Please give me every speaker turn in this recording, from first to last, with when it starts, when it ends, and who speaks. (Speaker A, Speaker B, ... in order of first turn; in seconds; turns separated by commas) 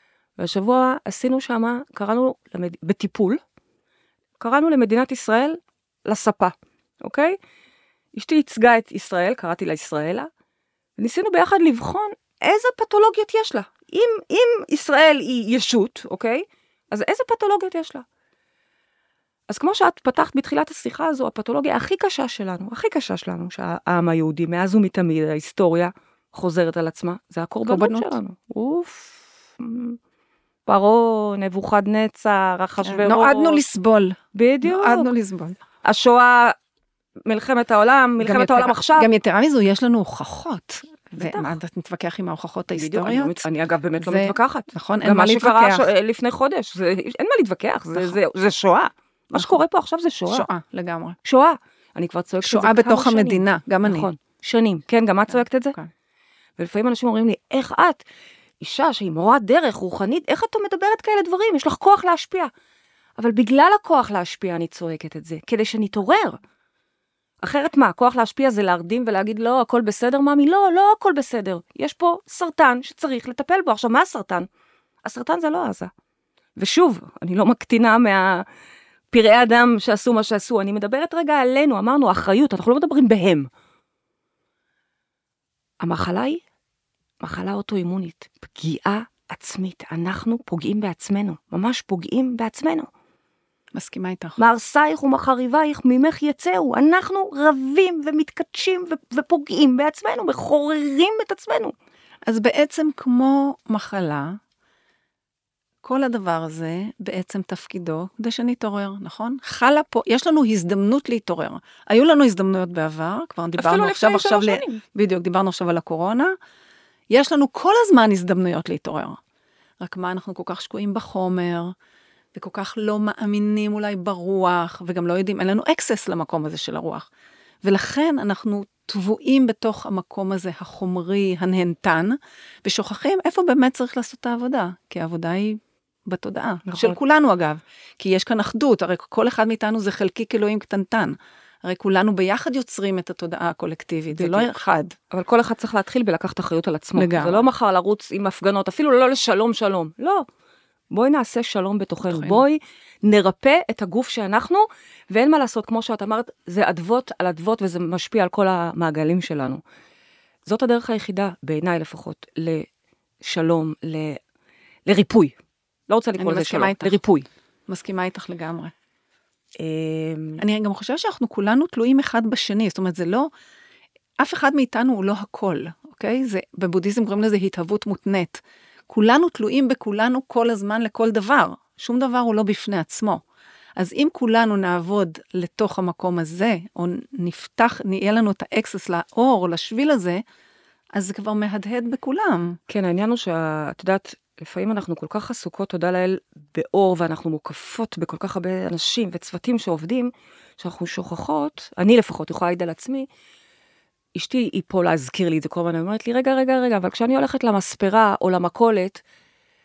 Speaker A: 0.4-3.4, Speaker A: 4.4-7.3, Speaker A: 8.1-10.3, Speaker A: 11.0-18.0, Speaker A: 19.5-30.0, Speaker B: 27.6-28.1, Speaker A: 30.7-33.6, Speaker B: 32.8-35.5, Speaker A: 34.3-35.1, Speaker A: 35.8-36.5, Speaker A: 37.2-39.1, Speaker B: 38.2-43.5, Speaker A: 41.1-41.6, Speaker A: 42.7-50.5, Speaker B: 44.0-45.9, Speaker B: 50.3-51.2, Speaker A: 51.2-55.8, Speaker B: 52.4-54.1, Speaker A: 56.6-58.0, Speaker A: 58.6-62.5, Speaker A: 63.2-66.4, Speaker A: 67.4-74.5, Speaker A: 75.0-75.9, Speaker A: 76.5-78.4, Speaker A: 79.1-83.5, Speaker A: 85.8-86.4, Speaker A: 87.2-92.9, Speaker B: 93.7-94.4, Speaker A: 94.4-101.7, Speaker B: 102.2-104.4, Speaker B: 105.8-116.3, Speaker A: 113.6-114.8, Speaker B: 117.1-119.2, Speaker B: 119.8-121.7, Speaker B: 122.3-127.1, Speaker B: 127.6-144.9, Speaker A: 136.7-137.0, Speaker A: 144.1-144.5, Speaker A: 145.1-150.2, Speaker B: 146.9-147.5, Speaker A: 150.9-159.6, Speaker B: 152.1-152.4, Speaker A: 160.4-162.7, Speaker A: 163.2-164.2, Speaker A: 164.9-165.3, Speaker A: 165.9-167.3, Speaker B: 166.2-167.0, Speaker B: 167.7-168.7, Speaker A: 169.6-170.4, Speaker B: 170.4-173.3, Speaker B: 174.2-183.2, Speaker B: 183.8-190.2, Speaker B: 190.9-192.6, Speaker A: 192.7-203.1, Speaker A: 204.1-209.0